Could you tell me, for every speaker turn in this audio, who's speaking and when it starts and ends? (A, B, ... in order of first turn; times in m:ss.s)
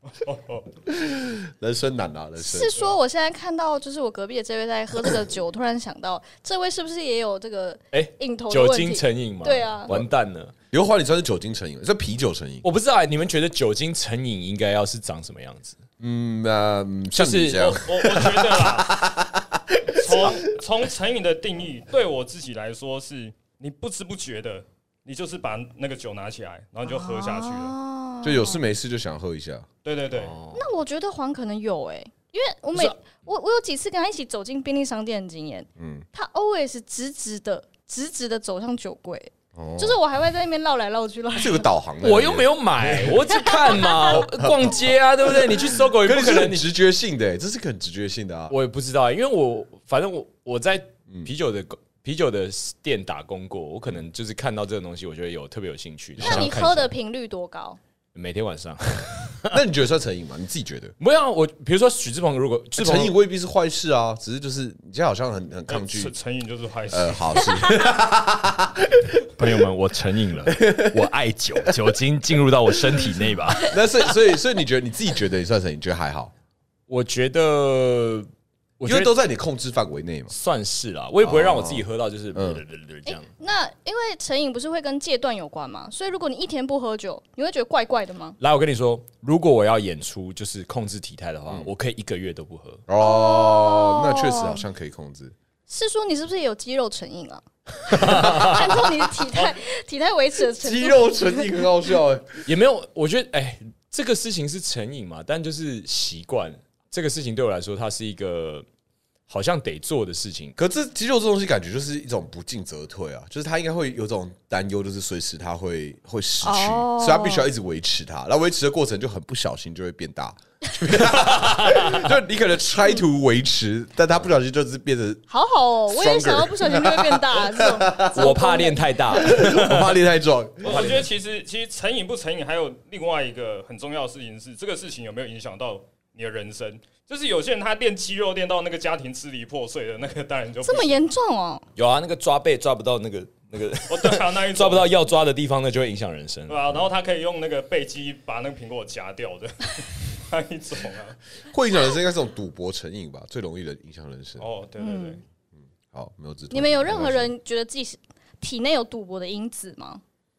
0:00.1-0:00.7 A
0:00.8-0:02.8 B
0:02.4-0:09.9 C
0:07.9-0:10.5 D
0:10.7-0:12.6 B
0:12.6-0:15.8 D
0:16.0-0:20.5 B
0:17.1-0:17.8 D
0:17.8-0:18.9 A
0:20.0-0:27.7 A
0:26.8-0:28.6 C
0:28.2-0:29.7 B
0:29.8-0:30.3 A
0:30.1-0:30.6 D
0:30.5-0:41.6 C
0:35.8-0:36.0 B
0:39.5-0:40.0 B
0:41.3-0:48.5 B
0:42.0-0:46.6 D
0:43.3-0:44.2 C
0:48.5-0:56.9 D
0:56.2-0:56.7 B
0:56.2-0:57.8 C
0:58.1-0:59.6 D
0:59.5-1:00.9 B
1:01.0-1:03.1 D
1:02.8-1:06.1 B
1:05.7-1:07.5 A
1:06.9-1:09.2 B
1:09.4-1:13.8 D
1:10.5-1:11.1 B
1:13.7-1:16.3 B
1:16.9-1:19.2 D
1:18.8-1:20.3 B
1:20.3-1:23.3 D
1:21.2-1:22.6 B
1:23.0-1:28.4 C
1:28.4-1:32.8 D
1:32.9-1:35.3 B
1:33.0-1:34.6 C
1:35.7-1:41.6 C
1:37.9-1:38.8 D
1:37.9-1:39.3 B
1:40.5-1:42.4 B
1:42.4-1:48.6 D
1:49.3-1:50.6 D
1:50.6-2:05.2 B
1:56.4-1:57.5 C
2:01.1-2:02.1 D
2:05.3-2:09.2 C
2:05.9-2:08.4 B
2:08.1-2:10.0 D
2:09.1-2:11.1 B
2:10.6-2:21.1 A
2:10.6-2:11.1 D
2:20.6-2:21.6 C
2:21.8-2:26.7 D
2:23.9-2:24.9 A
2:26.5-2:31.2 A
2:31.5-2:34.4 B
2:34.4-2:35.2 A
2:34.8-2:35.2 C
2:35.9-2:37.3 B
2:36.5-2:40.0 C